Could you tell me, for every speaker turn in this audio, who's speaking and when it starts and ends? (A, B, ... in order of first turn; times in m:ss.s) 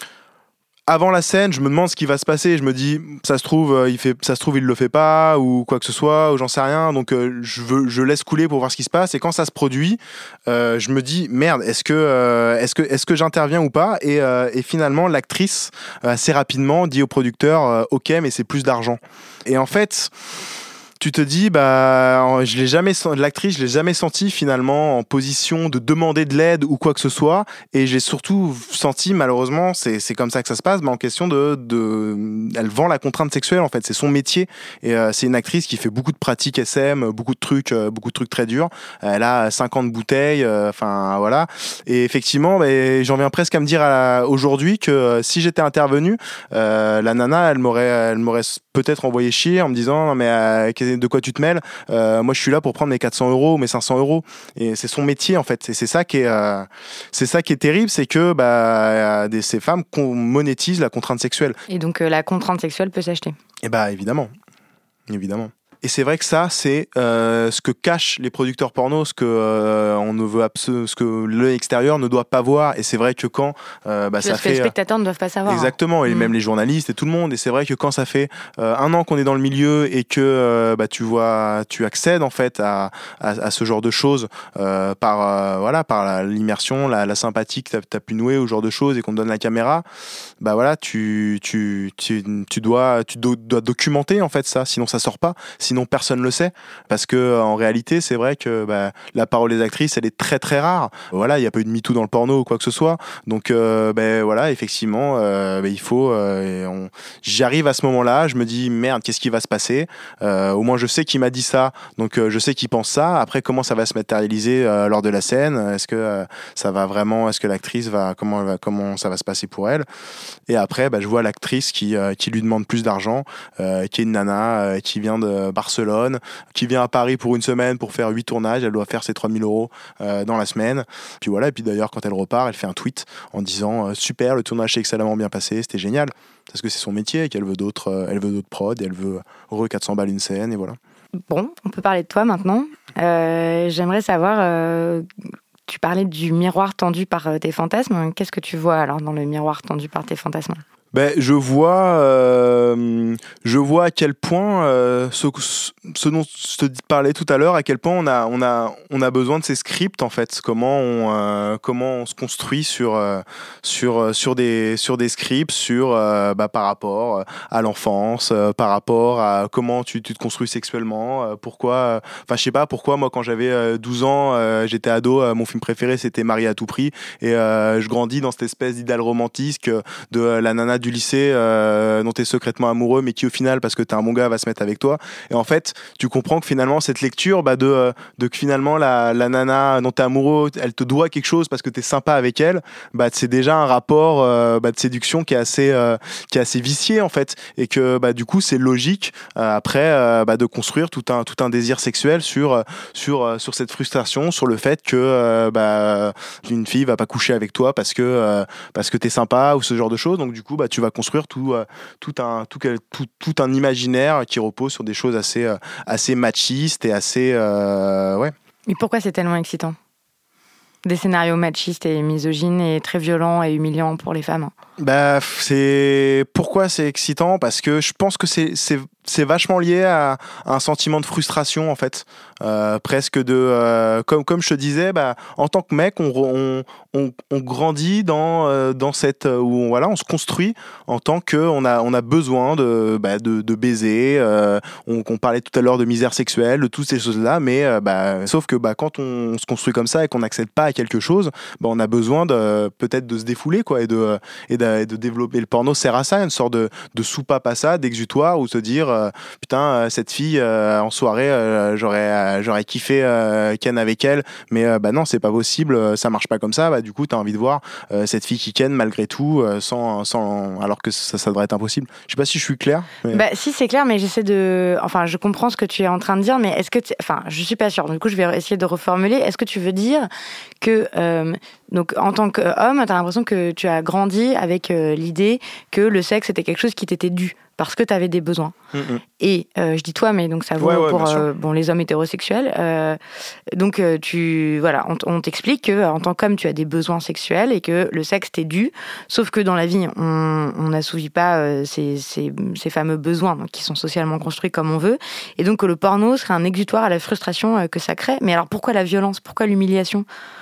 0:00.9-0:20.1 A
0:21.0-1:01.6 A
1:01.7-1:03.3 B
1:03.6-1:04.3 A
1:05.1-1:14.7 A
1:14.2-1:16.3 B
1:15.5-1:29.8 A
1:30.4-1:59.8 A
2:00.5-2:20.8 A
2:21.3-2:25.1 B
2:25.7-2:30.6 B
2:30.9-3:38.3 A
3:38.7-3:39.8 B
3:40.8-3:44.5 B
3:44.8-4:33.2 A
4:33.1-4:40.1 B
4:40.6-4:48.5 B
4:48.7-4:49.0 A
4:49.2-4:53.0 B
4:50.6-4:51.3 A
4:53.5-5:10.0 B